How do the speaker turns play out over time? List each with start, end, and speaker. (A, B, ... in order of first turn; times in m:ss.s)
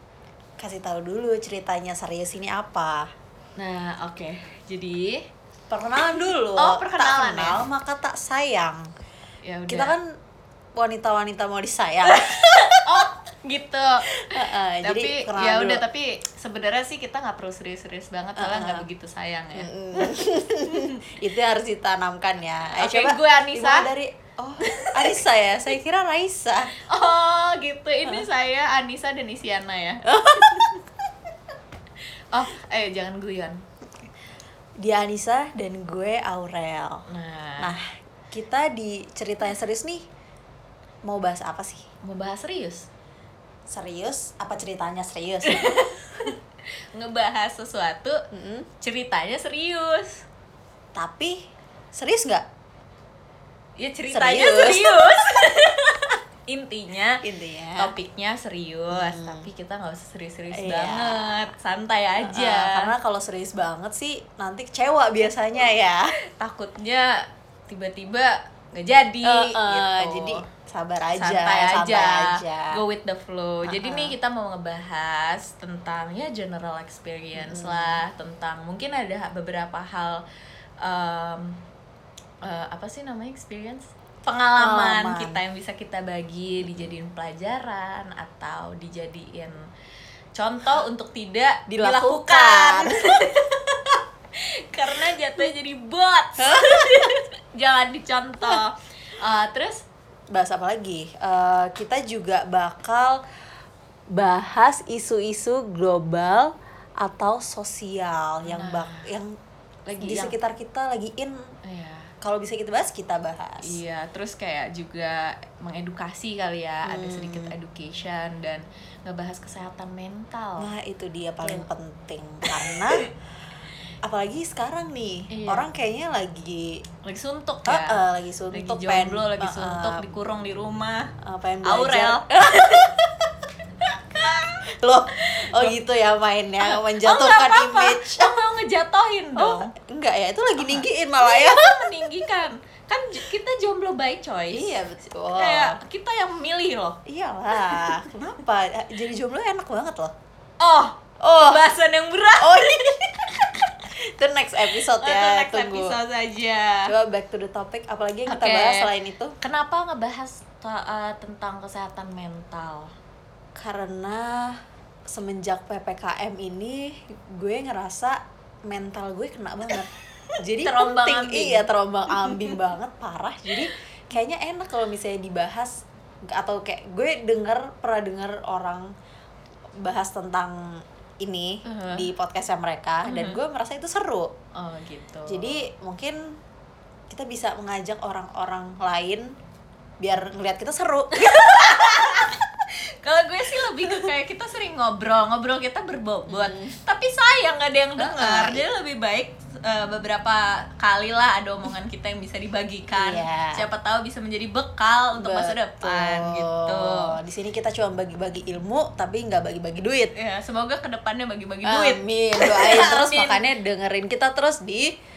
0:00.6-0:03.1 A
0:03.6-0:05.3 B
0:05.7-0:08.8 A
0:06.2-0:07.6 B
0:09.4-0:09.9 B
0:09.7-0:10.1 A
0:10.8-0:12.8 A
0:12.1-0:21.0 B
0:14.2-0:15.8 A
0:18.4-0:18.8 A
0:19.5-0:26.7 A
0:22.8-0:23.9 B
0:24.6-0:25.2 B
0:26.9-0:30.8 B
0:30.1-0:30.7 A
0:32.3-0:33.6 B
0:34.8-0:37.0 A
0:37.1-0:37.8 B
0:37.6-0:40.0 A
0:41.0-0:41.9 A
0:42.0-0:42.9 B
0:43.7-0:45.9 A
0:45.4-0:46.3 B
0:46.9-0:48.2 B
0:48.3-0:48.7 A
0:48.8-0:50.2 B
0:50.9-0:52.4 A
0:53.8-0:57.2 B
0:54.1-0:55.2 A
0:57.2-0:57.9 A
0:57.8-1:02.9 B
0:58.9-0:59.4 A
1:00.5-1:01.4 A
1:02.2-1:06.1 A
1:06.4-1:10.4 B
1:09.2-1:12.8 A
1:11.2-1:20.2 B
1:13.6-1:14.1 A
1:17.3-1:18.0 A
1:20.8-1:21.6 B
1:22.4-1:29.6 B
1:24.6-1:25.4 A
1:30.3-1:39.8 B
1:31.7-1:33.0 A
1:36.4-1:37.1 A
1:40.3-1:43.2 A
1:44.1-1:49.3 A
1:48.4-1:49.1 B
1:49.9-1:50.4 B
1:50.0-1:51.4 A
1:51.6-1:52.1 B
1:52.2-1:53.8 A
1:53.6-2:00.7 B
1:56.8-1:57.5 A
2:00.6-2:03.1 A
2:02.6-2:03.0 B
2:04.0-2:06.8 A
2:05.3-2:05.6 B
2:07.0-2:08.0 B
2:07.6-2:10.1 A
2:08.5-2:11.1 B
2:11.2-2:13.1 A
2:11.6-2:13.0 B
2:13.8-2:14.6 B
2:14.8-2:18.3 A
2:15.2-2:15.7 B
2:16.6-2:19.7 B
2:19.4-2:22.2 A
2:20.6-2:24.7 B
2:24.5-2:25.8 A
2:25.3-2:27.0 B
2:27.0-2:30.1 A
2:27.5-2:28.0 B
2:30.6-2:33.8 B
2:31.2-2:31.6 A
2:32.4-2:33.0 A
2:33.9-2:36.0 A
2:34.7-2:36.9 B
2:36.8-2:39.4 A
2:38.3-2:42.9 B
2:43.5-2:49.9 A
2:50.4-2:58.9 A
2:50.6-2:51.7 B
2:52.2-2:52.6 B
2:59.8-3:04.3 A
3:01.6-3:02.1 B
3:03.0-3:03.4 B
3:04.5-3:05.6 B
3:05.3-3:06.2 A
3:07.1-3:09.3 A
3:10.0-3:12.3 A
3:11.2-3:27.2 B
3:13.6-3:14.0 A
3:16.3-3:16.7 A
3:18.0-3:18.6 A
3:22.9-3:23.6 A
3:25.2-3:30.1 A
3:30.1-3:33.4 B
3:31.6-3:34.9 A